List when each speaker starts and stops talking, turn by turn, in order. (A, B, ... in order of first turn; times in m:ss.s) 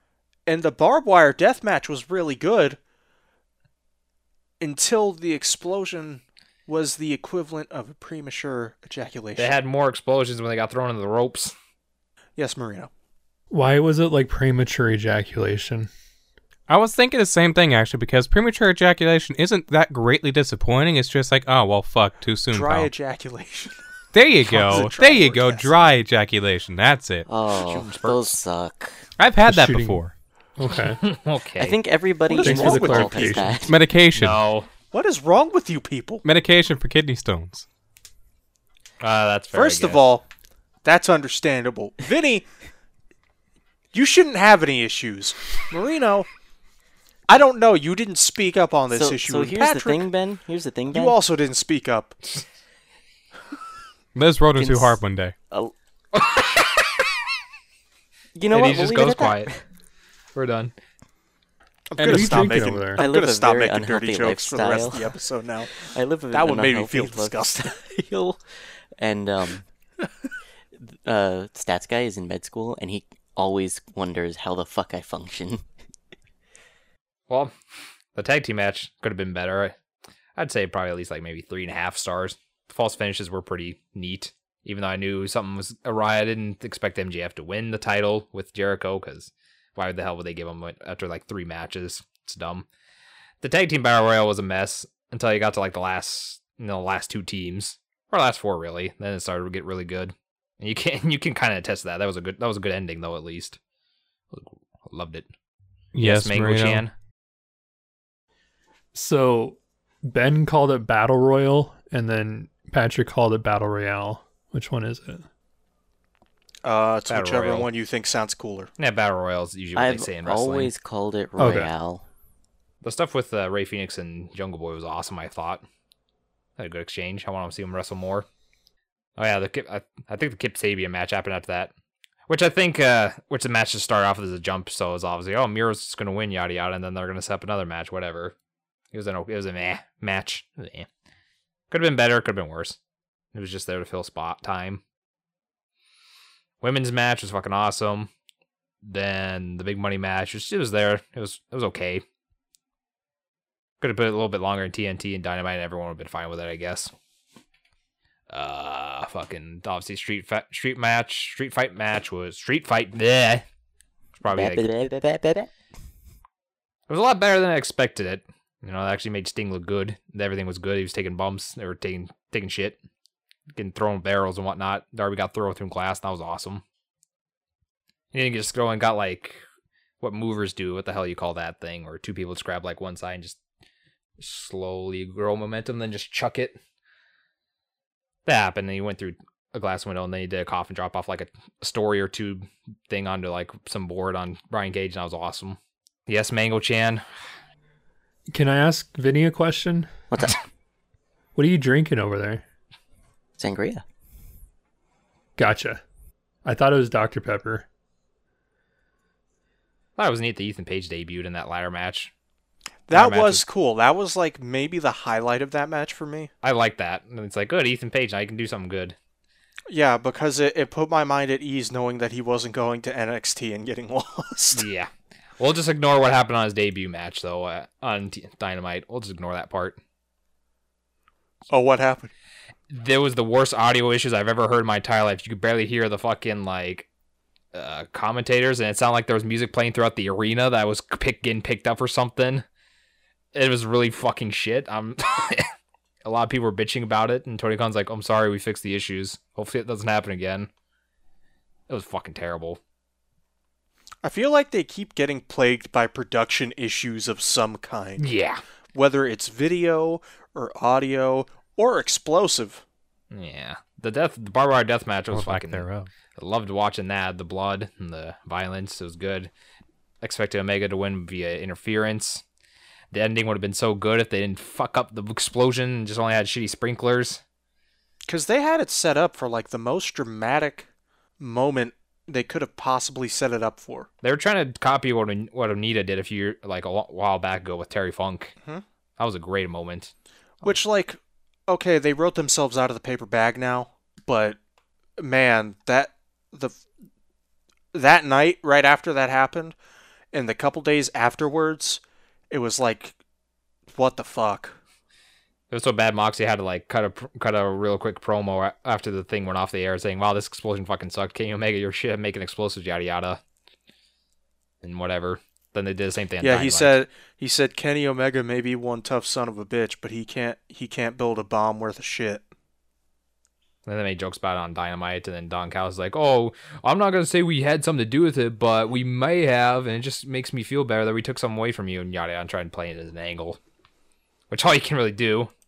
0:00.4-0:02.8 A
0:04.6-0:09.5 A
0:09.4-0:11.5 B
0:12.4-0:12.9 A
0:13.5-0:15.9 C
0:16.7-0:22.9 D
0:22.5-0:23.8 A
0:24.1-0:27.3 D
0:24.4-0:25.7 A
0:27.3-0:29.0 E
0:27.6-0:28.3 B
0:29.2-0:30.1 D
0:29.4-0:30.0 C
0:30.6-0:31.0 C
0:31.0-0:31.7 B
0:31.6-0:33.8 E
0:32.3-0:33.6 A
0:32.4-0:33.6 C
0:33.7-0:34.4 D
0:34.1-0:34.7 B
0:34.9-0:36.2 A
0:36.2-0:37.6 D
0:39.0-0:40.0 B
0:39.5-0:40.2 A
0:40.8-0:42.4 A
0:43.9-0:46.3 A
0:47.3-0:50.0 A
0:48.9-0:51.2 E
0:50.9-0:52.2 A
0:54.1-0:55.3 D
0:54.6-0:55.7 E
0:56.1-0:56.6 B
0:58.3-0:59.6 E
0:58.5-0:59.5 B
1:00.3-1:00.7 B
1:01.9-1:07.6 A
1:02.0-1:02.6 D
1:02.0-1:03.0 C
1:02.9-1:05.2 E
1:05.7-1:08.4 E
1:09.0-1:09.6 E
1:10.8-1:15.6 E
1:18.2-1:19.7 B
1:20.4-1:32.6 B
1:33.4-1:43.6 B
1:44.3-1:45.3 B
1:45.9-1:46.8 D
1:46.0-1:46.9 B
1:48.9-1:55.2 C
1:56.6-1:58.7 A
1:57.1-1:57.7 B
1:58.8-2:00.7 B
1:59.7-2:02.0 E
2:01.4-2:01.7 C
2:02.8-2:05.6 B
2:06.6-2:08.2 B
2:09.2-2:11.7 B
2:12.3-2:18.3 B
2:18.9-2:20.9 B
2:21.7-2:22.8 B
2:23.3-2:24.8 B
2:26.6-2:28.1 B
2:28.8-2:32.0 B
2:33.8-2:36.9 B
2:38.3-2:43.4 B
2:44.2-2:44.7 B
2:44.3-2:45.5 E
2:46.9-2:52.8 B
2:53.5-2:56.6 B
2:58.1-2:59.4 B
3:00.0-3:03.4 B
3:04.2-3:06.6 B
3:08.2-3:15.6 B
3:16.1-3:17.0 B
3:18.3-3:19.9 C
3:20.1-3:20.4 E
3:21.4-3:22.4 C
3:23.4-3:23.8 E
3:25.4-3:25.8 C
3:26.4-3:27.6 C
3:30.0-3:32.1 B
3:32.9-3:36.3 A
3:32.9-3:33.4 B
3:36.4-3:39.0 B
3:39.7-3:44.6 A
3:44.5-3:49.8 B
3:51.5-3:52.1 A
3:52.7-3:56.9 B
3:57.5-4:02.4 B
4:03.3-4:05.5 B
4:06.0-4:10.5 B
4:11.7-4:12.6 B
4:14.0-4:18.1 A
4:18.0-4:18.4 B
4:18.7-4:22.6 A
4:23.1-4:25.6 B
4:25.1-4:25.9 D
4:26.2-4:29.3 B
4:30.0-4:32.2 B
4:32.9-4:37.2 B
4:38.1-4:40.7 A
4:41.2-4:43.9 A
4:44.0-4:48.3 B
4:49.0-4:49.9 B
4:50.4-4:54.4 A
4:55.0-4:56.6 A
4:57.7-4:59.5 A
5:00.1-5:03.0 A
5:03.7-5:04.6 A
5:05.5-5:13.2 B
5:14.6-5:16.8 B
5:16.2-5:22.2 A
5:23.6-5:33.4 B
5:34.3-5:35.3 B